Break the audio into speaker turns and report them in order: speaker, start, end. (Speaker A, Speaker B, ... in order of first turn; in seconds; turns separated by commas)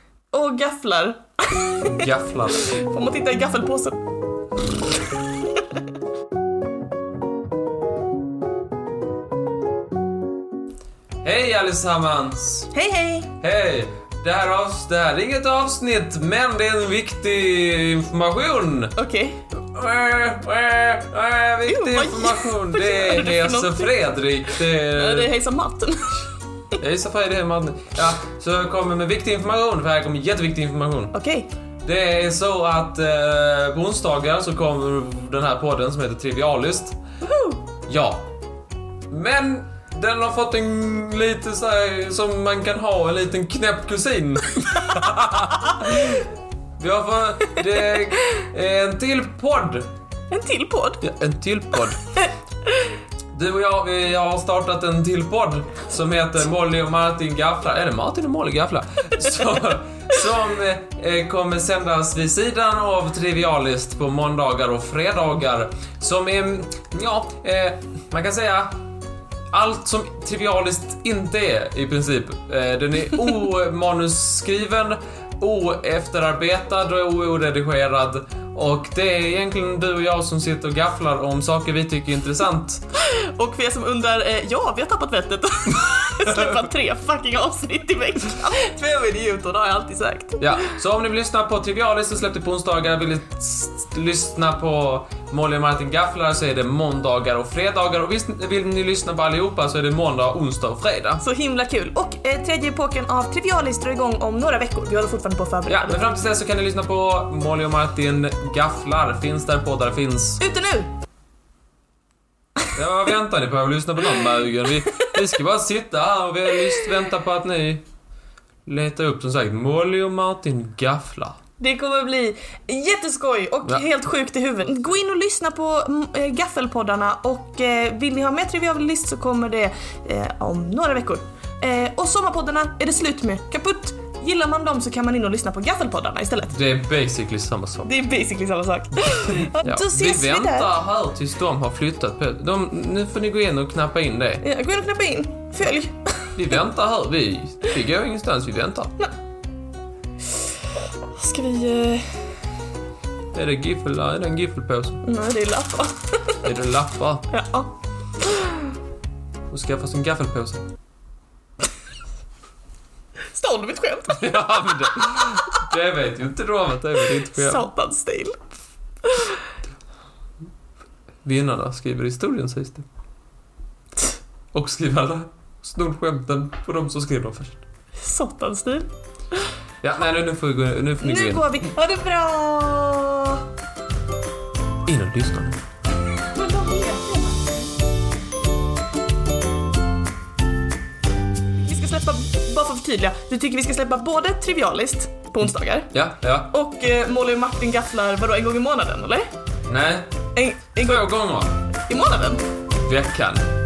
Speaker A: 0.3-4.0, Speaker B: 1.8-2.8, Speaker B: 11.2-12.7, Speaker A: 12.7-13.3, Speaker B: 13.4-18.9, Speaker A: 19.0-19.4, Speaker B: 19.6-25.3, Speaker A: 21.7-23.9, Speaker A: 24.7-26.2, Speaker B: 26.8-31.1, Speaker A: 31.1-31.5, Speaker B: 31.8-37.0, Speaker A: 37.2-37.6, Speaker B: 37.9-38.2, Speaker B: 39.1-49.9, Speaker A: 50.3-51.0, Speaker B: 51.0-52.1, Speaker A: 52.2-52.9, Speaker B: 53.3-68.7, Speaker B: 69.5-82.8, Speaker A: 82.9-90.7, Speaker B: 90.4-101.2, Speaker A: 101.2-106.0, Speaker B: 105.7-110.4, Speaker A: 110.4-110.9, Speaker B: 112.8-117.8, Speaker B: 118.7-121.4, Speaker A: 121.6-136.6, Speaker B: 136.5-137.9, Speaker A: 137.9-140.7, Speaker B: 139.2-144.4, Speaker A: 144.4-146.0, Speaker B: 146.3-148.9, Speaker A: 151.1-152.3, Speaker B: 153.3-155.0, Speaker A: 155.0-156.5, Speaker B: 156.4-157.3, Speaker A: 157.3-158.7, Speaker B: 159.5-160.7, Speaker A: 163.3-164.3, Speaker B: 164.1-167.7, Speaker A: 167.3-168.4, Speaker A: 169.0-169.4, Speaker B: 171.2-172.9, Speaker B: 174.5-177.6, Speaker A: 178.0-178.9, Speaker B: 179.8-181.6, Speaker A: 181.0-183.4, Speaker B: 184.9-185.6, Speaker A: 186.2-187.7, Speaker A: 191.7-195.9, Speaker B: 195.9-196.5, Speaker A: 196.5-199.3, Speaker B: 199.7-200.1, Speaker A: 200.4-201.1, Speaker B: 200.8-201.5, Speaker A: 201.9-202.4, Speaker B: 202.8-203.5